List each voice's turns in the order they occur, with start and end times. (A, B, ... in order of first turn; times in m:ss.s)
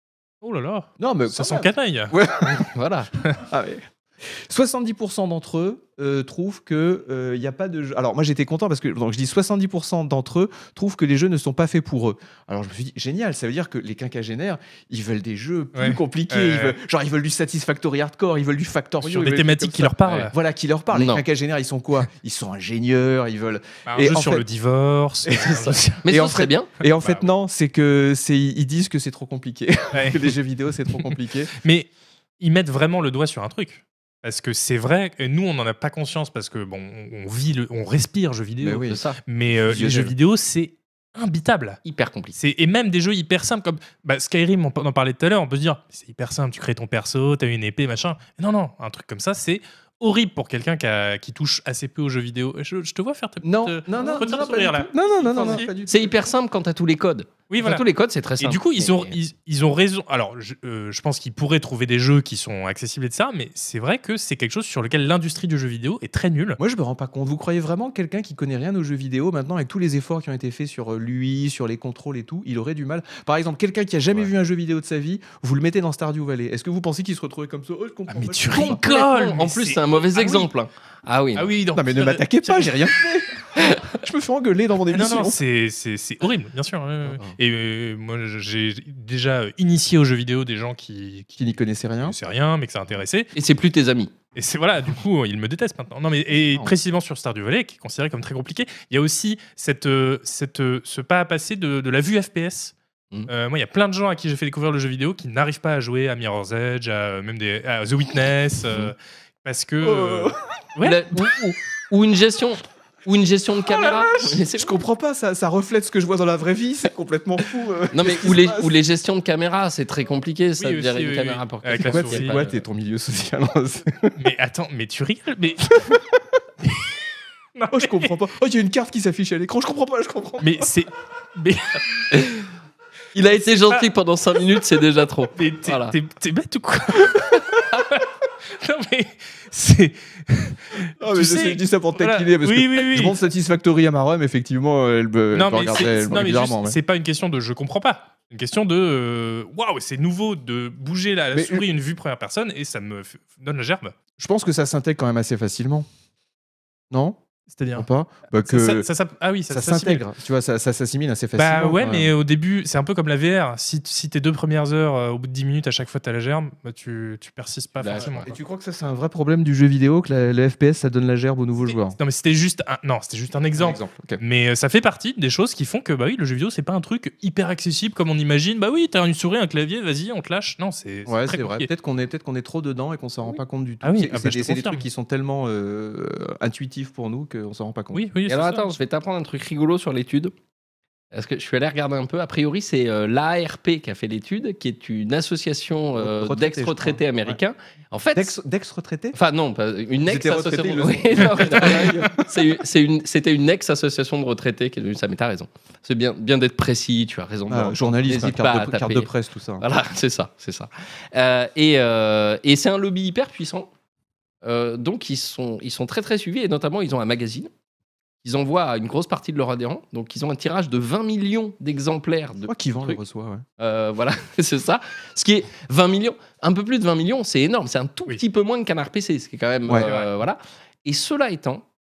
0:00.4-0:02.2 A
0:01.0-0:02.7 B
0:02.5-0:03.1 C
0:03.4-0:24.4 B
0:15.7-0:16.8 A
0:19.0-0:20.3 A
0:20.9-0:21.2 C
0:23.9-0:26.1 A
0:25.2-0:31.5 B
0:26.0-0:26.7 C
0:27.0-0:27.2 A
0:29.9-0:30.3 A
0:31.6-0:41.8 A
0:38.6-0:39.0 B
0:38.8-0:39.2 C
0:39.5-0:40.1 B
0:41.8-0:42.4 C
0:42.4-0:55.7 A
0:53.4-0:56.2 B
0:55.3-0:59.2 C
0:57.5-0:57.8 A
0:58.4-1:06.6 A
1:06.6-1:18.8 B
1:18.1-1:20.5 A
1:18.5-1:21.5 C
1:21.3-1:22.9 A
1:21.7-1:25.4 B
1:23.6-1:23.9 C
1:24.9-1:31.4 A
1:27.0-1:27.3 B
1:31.4-1:32.2 B
1:32.0-1:33.3 A
1:33.3-1:34.1 C
1:34.3-1:42.7 A
1:36.4-1:36.7 B
1:43.3-1:51.1 A
1:49.8-1:50.4 B
1:50.8-1:54.8 C
1:54.4-1:58.7 B
1:57.9-2:02.6 C
2:00.6-2:02.4 A
2:01.8-2:04.1 B
2:04.2-2:06.0 A
2:07.6-2:08.1 A
2:07.7-2:10.7 B
2:10.4-2:12.0 A
2:12.1-2:12.4 C
2:13.1-2:15.9 C
2:15.4-2:23.2 A
2:21.0-2:26.8 B
2:25.3-2:34.0 A
2:31.3-2:31.6 B
2:34.2-2:35.9 B
2:36.9-2:37.2 B
2:37.5-2:37.9 A
2:37.7-2:38.9 B
2:38.4-2:40.0 A
2:39.5-2:42.1 B
2:41.4-2:48.3 A
2:47.8-2:48.3 C
2:47.9-2:52.0 B
2:51.7-3:01.7 A
2:53.5-2:54.2 B
3:01.0-3:08.0 B
3:03.8-3:04.8 A
3:07.9-3:08.7 A
3:08.3-3:10.3 C
3:11.1-3:18.4 C
3:16.0-3:17.4 B
3:18.1-3:19.2 B
3:19.1-3:33.7 C
3:20.0-3:22.3 B
3:27.5-3:29.6 B
3:34.4-3:37.5 C
3:38.2-3:43.0 C
3:42.4-3:43.4 B
3:43.6-3:51.6 C
3:49.7-3:50.2 A